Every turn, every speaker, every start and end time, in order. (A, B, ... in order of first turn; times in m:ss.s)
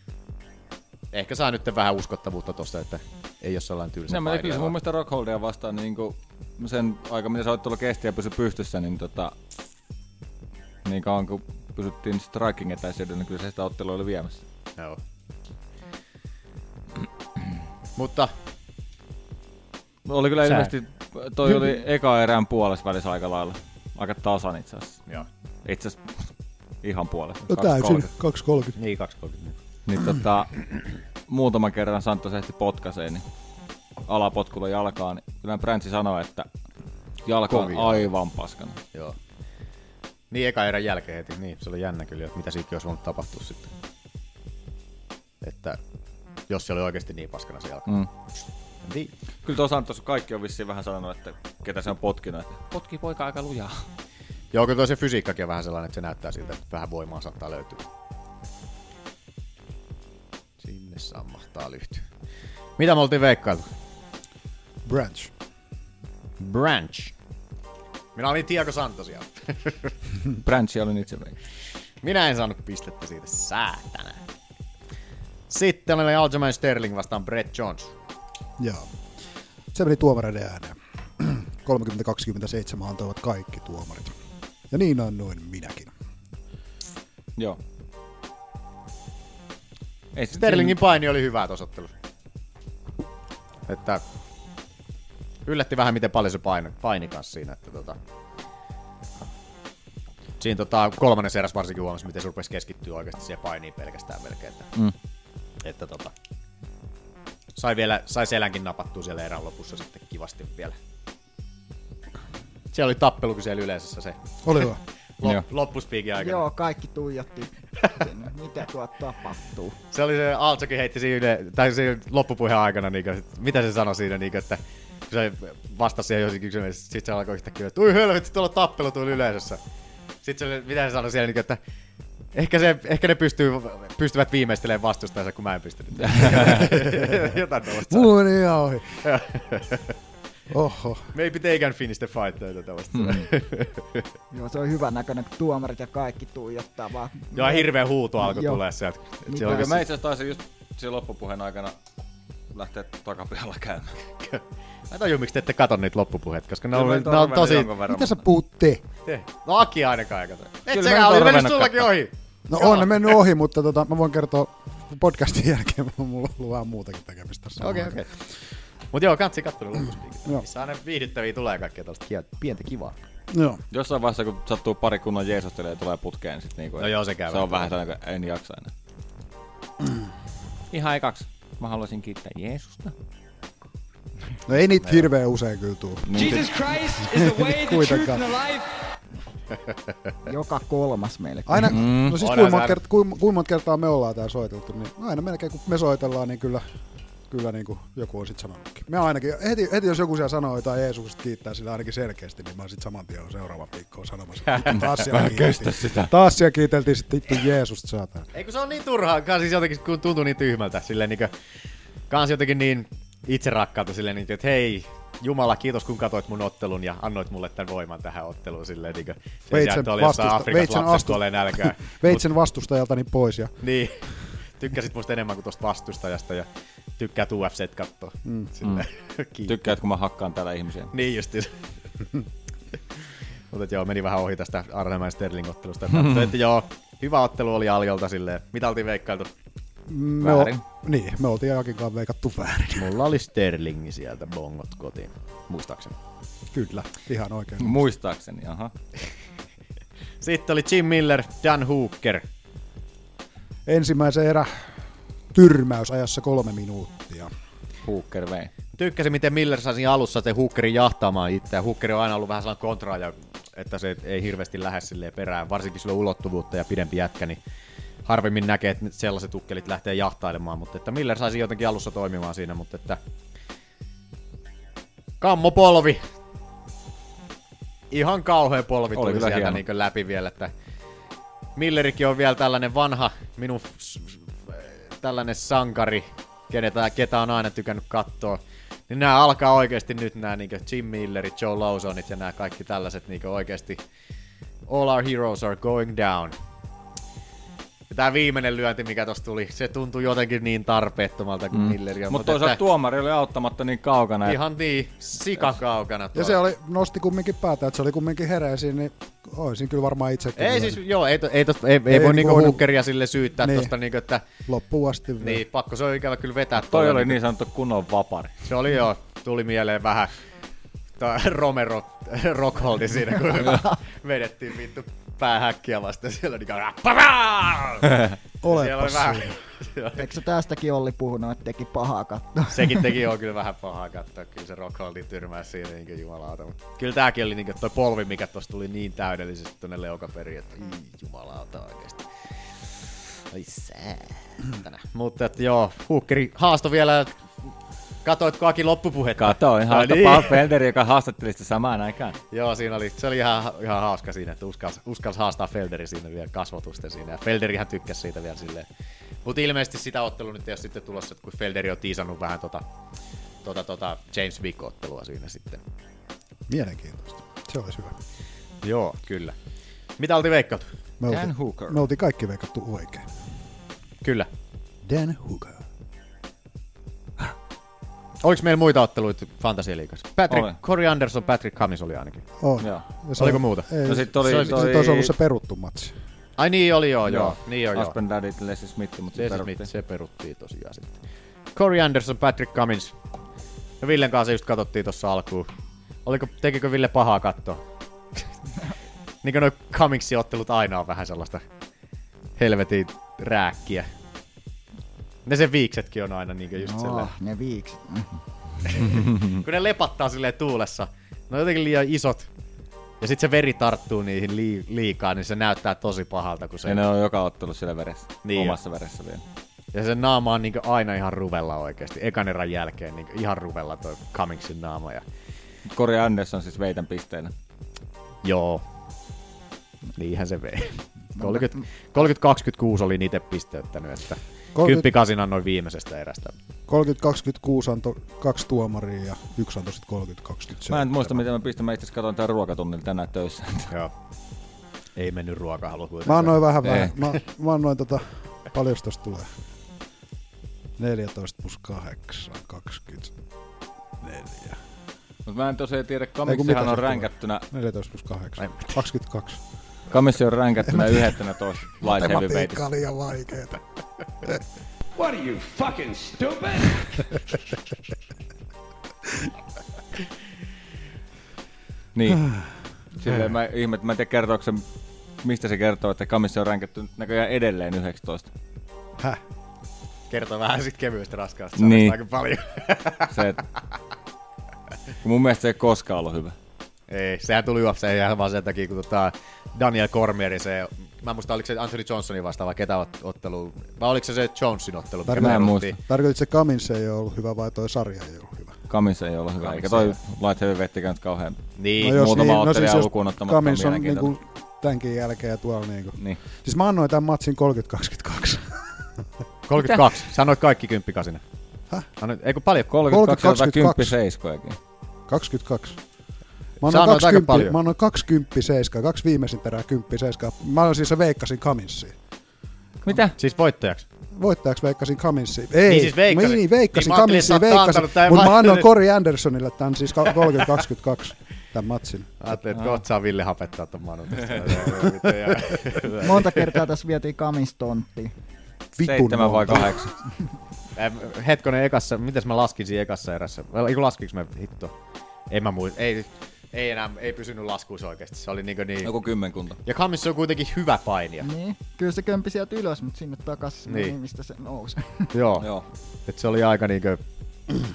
0:01.1-0:04.7 A
0:04.1-0:09.3 B
0:10.8-0:14.4 B
0:18.0-0:18.3 A
0:20.1-0:25.0 B
0:20.4-0:20.7 A
0:25.6-0:26.0 B
0:26.8-0:28.1 B
0:27.5-0:28.8 C
0:28.8-0:29.6 A
0:29.9-0:30.7 B
0:31.3-0:33.2 B
0:34.1-0:36.5 B
0:37.3-0:38.8 B
0:37.5-0:38.1 A
0:40.3-0:43.7 A
0:45.4-0:45.8 A
0:46.5-0:47.9 A
0:48.8-0:49.1 A
0:49.4-0:53.9 B
0:54.5-0:57.8 A
1:00.6-1:02.0 A
1:02.8-1:03.7 A
1:04.8-1:05.3 C
1:06.4-1:07.1 A
1:08.2-1:09.9 A
1:10.4-1:11.4 B
1:12.0-1:14.2 A
1:15.5-1:17.9 A
1:18.6-1:18.9 C
1:19.7-1:24.2 C
1:24.7-1:25.9 C
1:30.2-1:30.8 B
1:30.3-1:31.9 A
1:33.7-1:34.0 A
1:35.5-1:38.0 A
1:40.4-1:44.7 A
1:45.6-1:46.1 A
1:47.6-1:50.8 A
1:52.7-1:54.2 A
1:54.4-1:54.8 C
1:55.2-1:56.4 A
1:56.2-1:59.8 D
1:59.9-2:09.6 A
2:10.2-2:11.6 A
2:12.3-2:18.1 A
2:16.0-2:16.7 B
2:16.8-2:17.2 C
2:17.9-2:19.0 C
2:19.0-2:20.0 A
2:20.5-2:21.1 C
2:21.1-2:24.0 A
2:23.0-2:23.3 B
2:24.3-2:28.6 D
2:27.3-2:29.9 A
2:29.3-2:29.7 D
2:29.5-2:31.8 B
2:32.5-2:34.0 B
2:34.2-2:37.7 A
2:36.7-2:38.2 B
2:37.9-2:38.8 C
2:39.1-2:43.1 A
2:40.7-2:41.9 B
2:42.5-2:48.0 C
2:47.6-2:48.1 A
2:48.9-2:53.0 A
2:53.3-2:53.6 C
2:53.7-2:58.7 B
2:56.8-2:57.7 A
3:00.7-3:02.9 B
3:04.5-3:06.1 C
3:04.8-3:05.1 A
3:06.1-3:06.6 B
3:06.2-3:08.7 E
3:07.1-3:08.4 C
3:10.3-3:11.7 D
3:11.5-3:16.6 C
3:11.7-3:12.2 B
3:12.2-3:12.8 A
3:17.3-3:28.3 C
3:25.0-3:26.1 B
3:28.3-3:31.3 A
3:32.1-3:42.2 A
3:39.5-3:43.5 C
3:43.6-3:44.1 A
3:44.6-3:46.5 A
3:47.0-3:49.7 A
3:48.3-3:48.5 C
3:49.5-3:50.9 B
3:50.9-3:51.6 A
3:53.5-3:59.3 A
3:56.0-3:56.3 B
3:59.9-4:03.0 C
4:00.2-4:00.6 B
4:02.8-4:06.0 A
4:06.5-4:07.8 C
4:07.6-4:08.7 B
4:10.2-4:12.2 A
4:13.7-4:14.7 C
4:15.3-4:17.3 C
4:17.8-4:18.5 B
4:18.7-4:27.4 A
4:28.0-4:33.0 A
4:35.2-4:36.0 A
4:37.9-4:40.5 A
4:38.9-4:39.6 B
4:41.6-4:53.8 A
4:54.7-4:56.4 A
4:57.9-5:02.6 A
5:01.5-5:04.4 B
5:04.2-5:06.4 A
5:06.1-5:10.8 C
5:10.4-5:14.2 A
5:11.9-5:12.6 C
5:13.4-5:13.7 C
5:14.5-5:15.4 C
5:15.2-5:17.2 A
5:16.6-5:18.4 B
5:18.4-5:20.1 A
5:21.0-5:30.1 A
5:28.4-5:29.4 C
5:30.0-5:32.8 D
5:32.5-5:42.0 A
5:43.3-5:47.1 A
5:48.0-5:50.5 A
5:49.2-5:52.2 B
5:52.3-5:58.7 A
5:59.2-6:02.6 A
6:03.4-6:05.6 A
6:06.5-6:08.0 C
6:08.6-6:09.4 A
6:10.0-6:10.7 A
6:11.0-6:13.1 C
6:11.1-6:11.8 B
6:14.0-6:14.3 A
6:14.8-6:15.6 C
6:18.2-6:22.3 A
6:20.3-6:20.6 B
6:22.4-6:26.0 C
6:23.2-6:24.6 A
6:23.8-6:25.1 B
6:26.4-6:28.0 A
6:27.1-6:29.7 B
6:29.2-6:31.0 A
6:31.6-6:32.9 A
6:33.8-6:35.5 A
6:36.0-6:37.6 A
6:39.2-6:41.4 A
6:42.4-6:43.9 A
6:45.2-6:47.1 A
6:46.6-6:48.1 D
6:48.7-6:52.3 A
6:53.0-6:56.8 A
6:56.6-6:59.2 B
6:58.2-6:58.6 A
6:59.7-7:05.0 A
7:05.7-7:07.3 B
7:08.2-7:08.6 A
7:10.0-7:16.4 A
7:11.2-7:11.6 D
7:14.6-7:14.9 C
7:16.7-7:21.2 C
7:20.7-7:23.7 B
7:25.0-7:26.5 A
7:26.0-7:29.3 C
7:26.6-7:26.9 B
7:30.8-7:33.1 C
7:34.0-7:34.6 C
7:35.3-7:37.4 B
7:36.2-7:39.4 C
7:39.9-7:42.6 B
7:40.7-7:41.1 C
7:41.8-7:43.6 C
7:45.0-7:47.0 E
7:51.9-7:52.3 B
7:52.1-7:52.5 C
7:52.9-7:54.7 B
7:55.2-7:58.3 B
8:00.1-8:03.3 A
8:01.6-8:02.0 B
8:03.1-8:03.4 B
8:05.0-8:06.4 B
8:06.9-8:15.8 A
8:15.0-8:18.6 C
8:15.2-8:15.7 B
8:18.7-8:24.1 B
8:19.4-8:20.0 A
8:21.6-8:22.0 A
8:21.8-8:28.7 C
8:29.5-8:31.2 A
8:32.0-8:32.7 A
8:32.7-8:34.6 B
8:32.8-8:34.0 C
8:35.1-8:35.8 C
8:36.6-8:42.0 C
8:36.6-8:37.6 A
8:42.8-8:43.2 B
8:43.2-8:43.8 A
8:44.1-8:52.3 C
8:45.7-8:48.7 A
8:52.2-8:56.5 A
8:52.5-8:52.8 B
8:56.0-8:58.1 D
8:58.8-8:59.9 C
8:58.8-8:59.9 B
9:00.8-9:04.7 A
9:05.3-9:08.9 A
9:08.8-9:09.6 B
9:09.6-9:11.3 A
9:11.2-9:15.1 D
9:13.7-9:13.9 A
9:15.1-9:15.5 A
9:15.4-9:15.7 B
9:16.1-9:17.0 A